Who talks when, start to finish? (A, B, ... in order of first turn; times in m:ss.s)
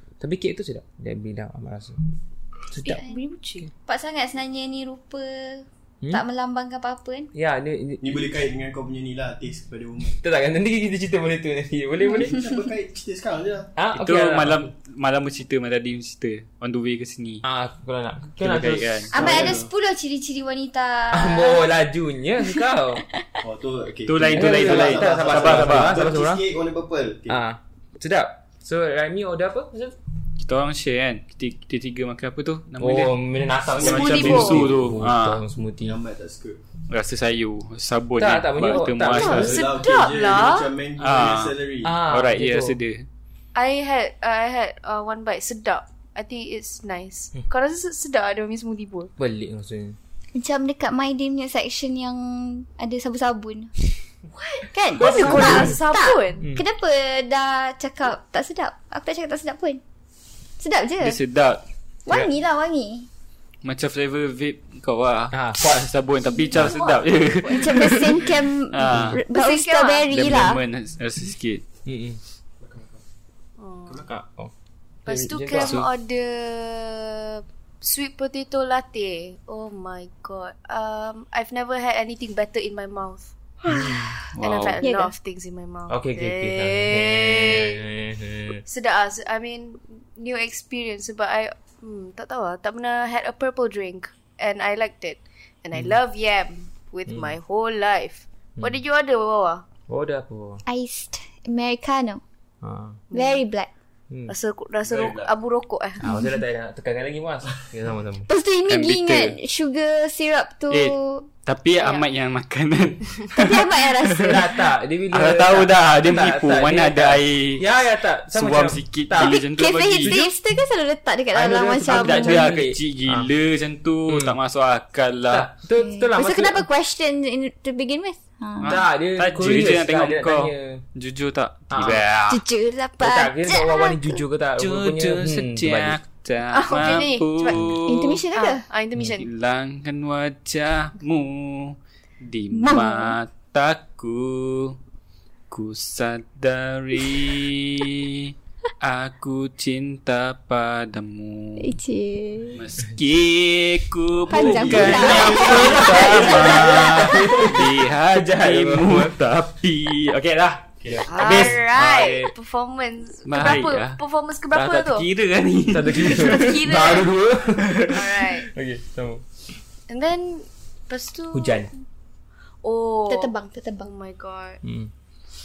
0:00.2-0:02.0 A
0:02.7-0:03.0 A
0:02.8-0:03.7 B
0:03.9-0:07.3 C
0:07.3-0:08.3 A
0:08.0-0:10.2 D
0:10.2-0:12.4 A
0:12.1-0:13.7 D
0:13.8-0:14.7 A
0:13.9-0:17.4 E
0:17.4-0:19.5 A
0:18.4-0:19.3 E
0:19.1-0:21.7 C
0:19.1-0:19.7 D
0:21.1-0:23.0 A
0:23.1-0:23.4 C
0:23.4-0:27.4 D
0:24.1-0:26.0 E
0:24.2-0:26.4 A
0:27.3-0:30.0 A
0:30.4-0:35.4 E
0:32.8-0:36.0 A
0:33.8-0:34.7 B
0:35.8-0:36.6 D
0:36.9-0:39.6 E
0:38.2-0:39.7 A
0:39.1-0:42.0 D
0:39.2-0:40.7 B
0:41.0-0:41.6 E
0:41.8-0:42.8 A
0:42.1-0:43.1 E
0:43.6-0:49.1 B
0:49.2-0:50.0 A
0:50.4-0:53.7 C
0:54.3-0:56.4 B
0:54.7-0:59.8 C
0:55.0-0:55.8 A
1:00.6-1:01.2 C
1:01.0-1:01.6 E
1:02.1-1:03.1 C
1:03.6-1:09.2 E
1:05.3-1:05.9 A
1:06.5-1:06.7 C
1:06.6-1:08.0 B
1:07.4-1:10.6 C
1:08.9-1:09.2 A
1:09.3-1:10.1 B
1:10.1-1:11.6 E
1:11.9-1:12.2 A
1:12.6-1:13.0 D
1:13.6-1:14.0 B
1:13.9-1:14.2 D
1:14.1-1:14.5 A
1:15.1-1:15.8 A
1:15.1-1:23.3 B
1:15.6-1:15.9 E
1:23.7-1:24.2 A
1:23.7-1:24.3 C
1:24.4-1:27.8 B
1:24.4-1:24.8 E
1:24.8-1:25.1 C
1:25.9-1:28.6 A
1:28.7-1:39.7 B
1:39.9-1:40.6 A
1:40.7-1:42.2 C
1:42.6-1:43.0 A
1:43.1-1:43.4 B
1:43.1-1:43.7 C
1:44.3-1:46.1 B
1:44.8-1:45.3 D
1:46.0-1:48.3 A
1:48.3-1:51.3 C
1:48.7-1:49.4 E
1:50.7-1:54.4 E
1:51.8-1:52.1 B
1:53.3-1:54.6 C
1:54.2-1:59.4 A
1:55.1-1:57.6 E
1:58.3-2:00.3 E
1:59.2-2:02.6 C
2:00.0-2:00.3 A
2:01.3-2:03.3 A
2:01.8-2:05.5 E
2:04.1-2:04.4 A
2:05.3-2:06.7 A
2:05.8-2:08.8 C
2:08.6-2:12.4 E
2:08.6-2:10.8 A
2:11.7-2:12.0 A
2:12.3-2:14.2 C
2:13.0-2:16.0 A
2:14.6-2:18.2 E
2:16.5-2:17.7 B
2:17.8-2:18.7 C
2:18.3-2:19.3 B
2:19.2-2:24.8 E
2:22.5-2:23.2 C
2:25.5-2:31.7 E
2:31.6-2:32.6 C
2:32.5-2:41.6 E
2:34.3-2:37.4 C
2:34.4-2:39.2 A
2:40.8-2:41.1 D
2:40.9-2:42.3 A
2:41.1-2:45.1 B
2:43.3-2:44.0 E
2:44.5-2:46.6 E
2:45.7-2:49.2 A
2:46.0-2:47.1 B
2:47.9-2:48.5 B
2:49.9-2:51.7 B
2:51.3-2:51.7 A
2:52.6-2:54.6 B
2:53.1-2:53.9 C
2:54.6-2:54.9 A